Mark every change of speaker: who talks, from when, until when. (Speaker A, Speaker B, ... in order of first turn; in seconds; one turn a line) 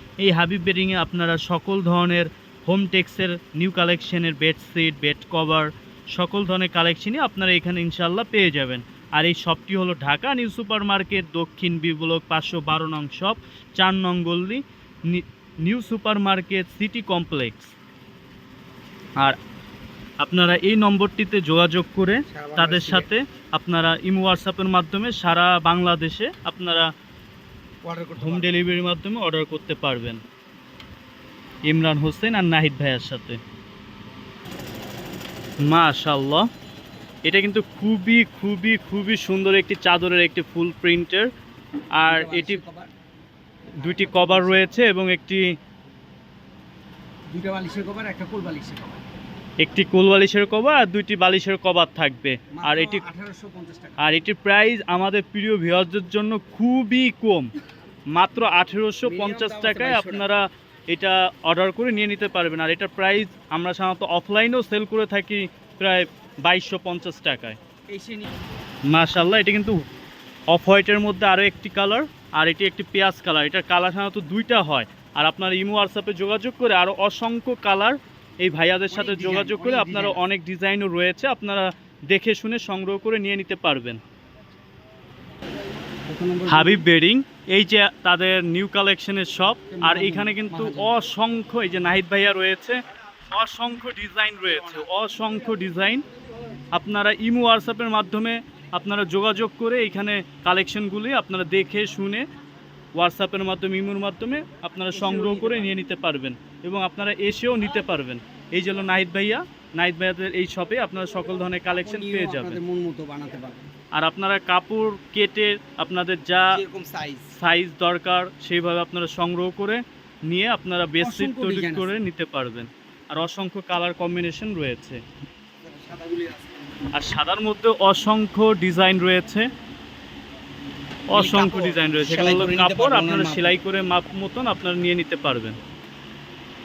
Speaker A: 0.2-17.7
Speaker A: 20.2-26.9
Speaker B: 22.3-23.1
Speaker B: 27.8-28.6
Speaker A: 28.2-30.2
Speaker A: 31.7-33.4
Speaker A: 35.7-36.5
Speaker A: 37.2-41.3
Speaker A: 42.0-42.6
Speaker B: 42.1-42.9
Speaker A: 43.8-45.5
Speaker B: 43.8-44.7
Speaker B: 47.3-49.0
Speaker A: 49.6-53.0
Speaker B: 52.5-54.0
Speaker A: 54.0-57.5
Speaker A: 58.1-67.6
Speaker B: 59.0-60.3
Speaker B: 67.9-68.3
Speaker A: 68.9-69.8
Speaker A: 70.5-84.0
Speaker B: 78.9-80.2
Speaker B: 86.1-86.8
Speaker A: 86.5-92.8
Speaker B: 89.7-90.9
Speaker A: 93.3-96.0
Speaker B: 94.4-94.9
Speaker A: 96.7-102.2
Speaker A: 103.0-112.6
Speaker B: 104.9-105.8
Speaker B: 111.7-113.6
Speaker A: 114.0-116.6
Speaker B: 116.5-117.3
Speaker A: 117.3-125.0
Speaker B: 121.0-121.9
Speaker B: 125.6-126.8
Speaker A: 126.9-129.5
Speaker A: 131.1-135.6
Speaker B: 131.1-133.6